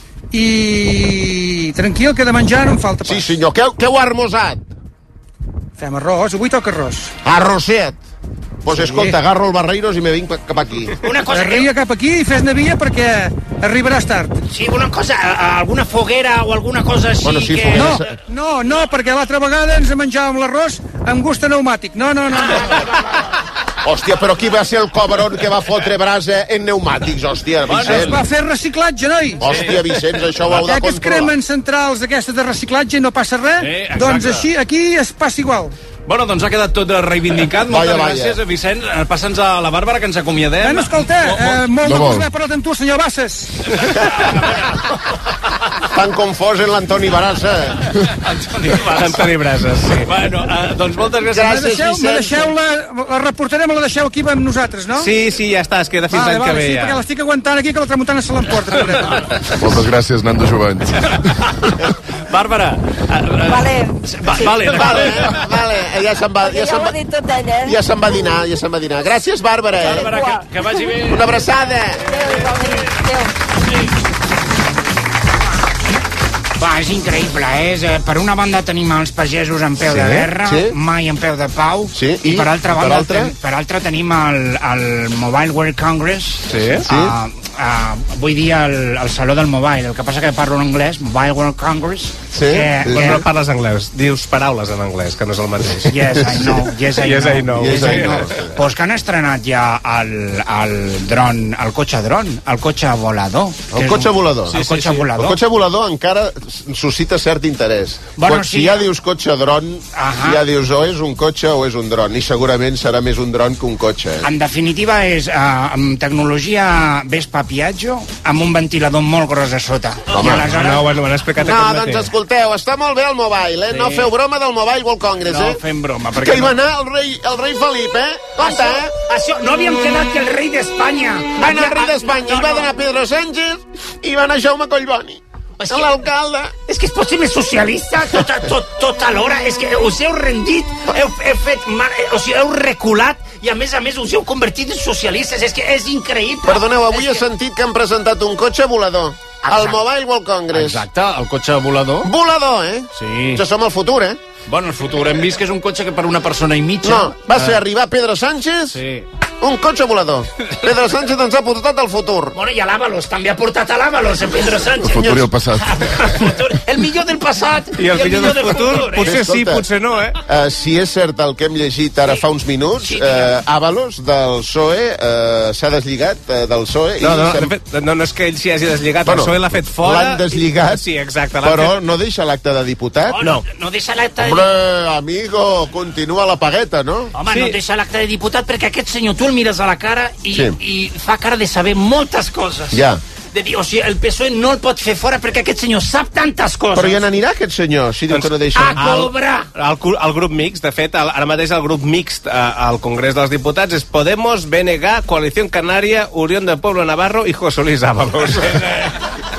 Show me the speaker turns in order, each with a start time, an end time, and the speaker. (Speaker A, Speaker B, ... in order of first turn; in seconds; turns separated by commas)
Speaker A: 0.3-3.3, Speaker B: 3.0-4.6, Speaker A: 5.8-7.1, Speaker B: 7.2-8.0, Speaker B: 8.6-10.9, Speaker A: 8.7-9.1, Speaker C: 11.0-11.7, Speaker A: 11.3-14.4, Speaker C: 14.5-17.9, Speaker B: 17.2-18.1, Speaker A: 17.7-22.9, Speaker B: 23.8-28.2, Speaker D: 27.6-28.1, Speaker A: 27.8-29.5, Speaker B: 29.4-31.3, Speaker D: 29.4-29.8, Speaker A: 30.5-35.7, Speaker D: 33.6-34.5, Speaker D: 36.0-41.6, Speaker B: 37.6-38.4, Speaker A: 40.6-43.5, Speaker E: 41.8-42.3, Speaker D: 43.8-44.7, Speaker B: 45.9-47.8, Speaker D: 48.2-49.2, Speaker F: 48.8-50.1, Speaker D: 50.0-51.6, Speaker B: 51.3-52.5, Speaker A: 51.4-55.1, Speaker F: 54.9-57.0, Speaker A: 56.1-59.2, Speaker E: 59.6-61.2, Speaker D: 61.4-61.8, Speaker D: 62.3-65.4, Speaker G: 63.5-64.8, Speaker B: 64.7-67.0, Speaker G: 66.4-67.8, Speaker B: 67.6-70.1, Speaker D: 69.8-71.4, Speaker G: 69.9-70.8, Speaker B: 71.1-72.1, Speaker G: 72.1-73.3, Speaker C: 76.6-93.2, Speaker B: 79.8-80.8, Speaker B: 81.9-83.3, Speaker F: 86.5-86.8, Speaker B: 86.8-87.2, Speaker B: 92.3-93.2, Speaker F: 92.8-98.3, Speaker C: 95.9-105.4, Speaker B: 97.5-98.5, Speaker B: 103.7-114.3, Speaker F: 104.5-105.0, Speaker C: 108.2-108.9, Speaker C: 109.9-110.4, Speaker C: 114.2-120.9, Speaker B: 120.1-120.5, Speaker F: 120.4-122.1, Speaker B: 121.4-125.6, Speaker D: 123.7-124.0, Speaker C: 125.3-126.4, Speaker D: 125.5-126.4, Speaker B: 126.1-128.9, Speaker C: 128.4-132.7, Speaker B: 131.4-136.5, Speaker C: 135.6-135.9, Speaker C: 136.7-147.2, Speaker B: 146.4-150.8, Speaker C: 149.4-149.8, Speaker D: 150.5-152.1, Speaker B: 152.0-154.2, Speaker D: 153.0-153.4, Speaker D: 154.5-157.6, Speaker B: 156.8-158.8, Speaker D: 158.7-159.1, Speaker B: 159.4-162.4, Speaker C: 162.3-169.1, Speaker E: 164.8-166.1, Speaker B: 165.0-165.3, Speaker F: 167.8-170.2, Speaker D: 168.1-168.8, Speaker B: 169.0-169.7, Speaker B: 170.3-177.5, Speaker C: 172.8-173.3, Speaker F: 177.0-181.7, Speaker B: 179.0-180.8, Speaker B: 181.4-183.2, Speaker C: 183.2-184.5, Speaker B: 184.2-187.1, Speaker C: 187.2-197.0, Speaker F: 187.2-187.6, Speaker B: 190.3-190.6, Speaker B: 192.7-193.0, Speaker B: 196.7-199.1, Speaker F: 198.1-208.6, Speaker C: 198.5-199.5